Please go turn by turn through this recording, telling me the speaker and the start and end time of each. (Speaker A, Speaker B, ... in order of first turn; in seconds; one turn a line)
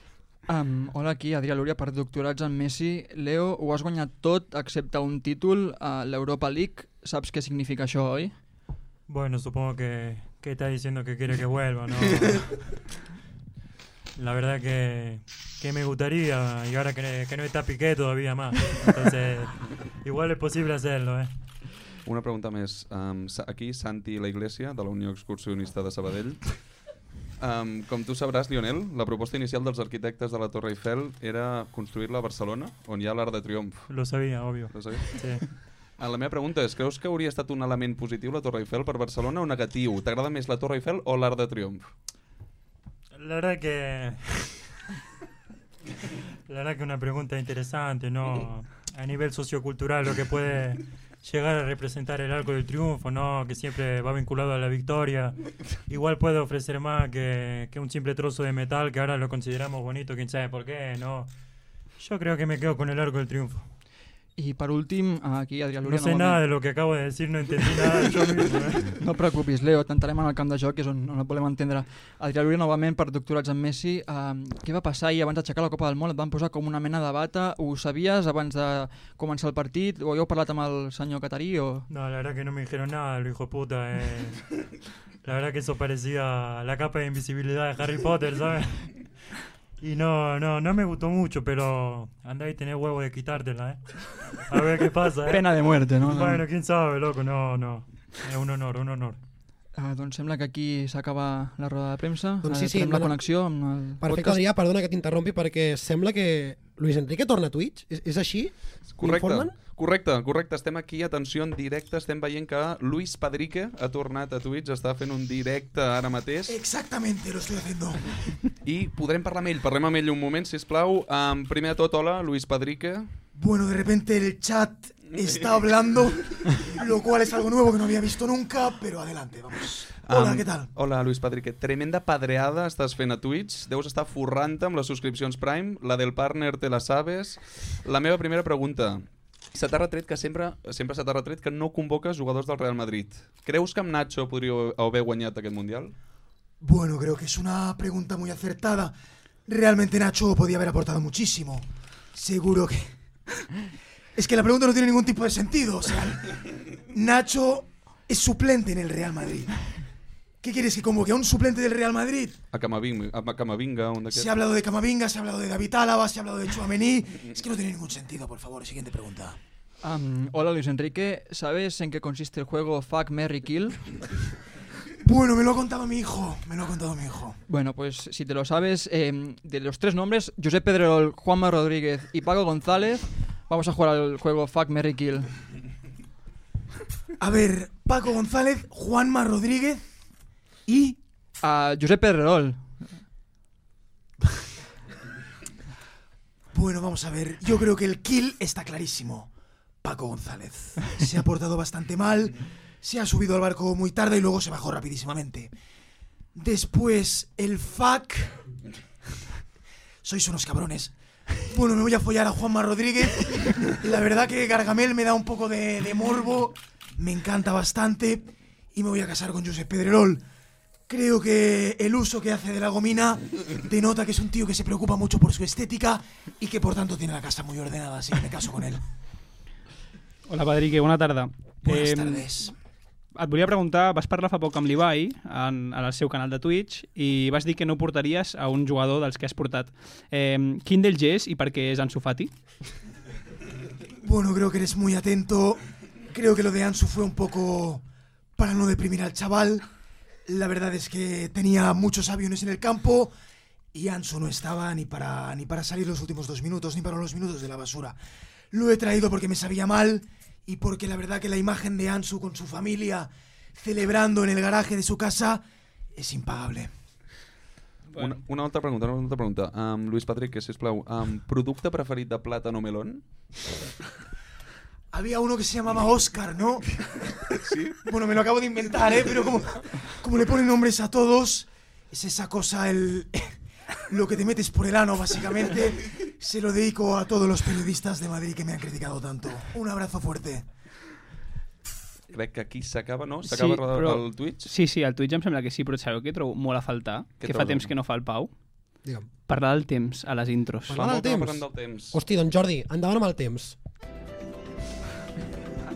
Speaker A: 0.5-8.3
Speaker B: 9.1-12.6
Speaker B: 14.2-21.3
Speaker C: 22.0-26.6
Speaker C: 27.4-33.9
Speaker B: 33.9-35.5
Speaker C: 34.7-35.2
Speaker C: 36.0-41.9
Speaker B: 43.2-44.5
Speaker B: 46.5-55.4
Speaker B: 55.9-61.3
Speaker B: 62.0-63.6
Speaker A: 64.4-66.4
Speaker B: 65.8-68.9
Speaker A: 68.8-81.9
Speaker B: 81.9-84.4
Speaker B: 85.2-88.9
Speaker B: 89.8-93.8
Speaker B: 94.5-95.5
Speaker A: 95.3-96.5
Speaker B: 96.0-99.2
Speaker A: 99.7-104.4
Speaker D: 102.4-103.2
Speaker D: 104.0-109.5
Speaker C: 108.9-116.6
Speaker E: 116.5-118.0
Speaker C: 118.6-123.2
Speaker E: 123.3-130.7
Speaker C: 125.1-125.6
Speaker C: 130.0-145.9
Speaker E: 146.6-148.9
Speaker E: 149.5-152.9
Speaker E: 154.2-159.5
Speaker E: 160.4-162.4
Speaker C: 162.5-164.3
Speaker E: 164.1-169.4
Speaker A: 169.8-173.8
Speaker E: 175.0-177.4
Speaker A: 177.5-185.3
Speaker E: 187.2-189.8
Speaker E: 190.7-191.0
Speaker A: 191.4-192.7
Speaker E: 196.5-199.3
Speaker E: 199.8-205.5
Speaker E: 206.3-208.4
Speaker E: 210.0-220.2
Speaker E: 220.9-228.8
Speaker F: 230.3-232.3
Speaker E: 231.6-232.5
Speaker F: 233.2-242.3
Speaker E: 244.0-247.8
Speaker E: 248.4-249.7
Speaker E: 250.3-253.1
Speaker E: 253.7-258.0
Speaker E: 258.5-265.4
Speaker E: 265.9-266.7
Speaker C: 268.0-273.0
Speaker E: 274.9-276.6
Speaker C: 277.4-277.8
Speaker E: 277.8-283.3
Speaker E: 283.9-290.4
Speaker C: 292.1-294.5
Speaker F: 293.2-298.3
Speaker C: 297.2-297.7
Speaker D: 298.8-299.1
Speaker F: 299.3-300.8
Speaker D: 300.7-303.6
Speaker C: 300.7-302.0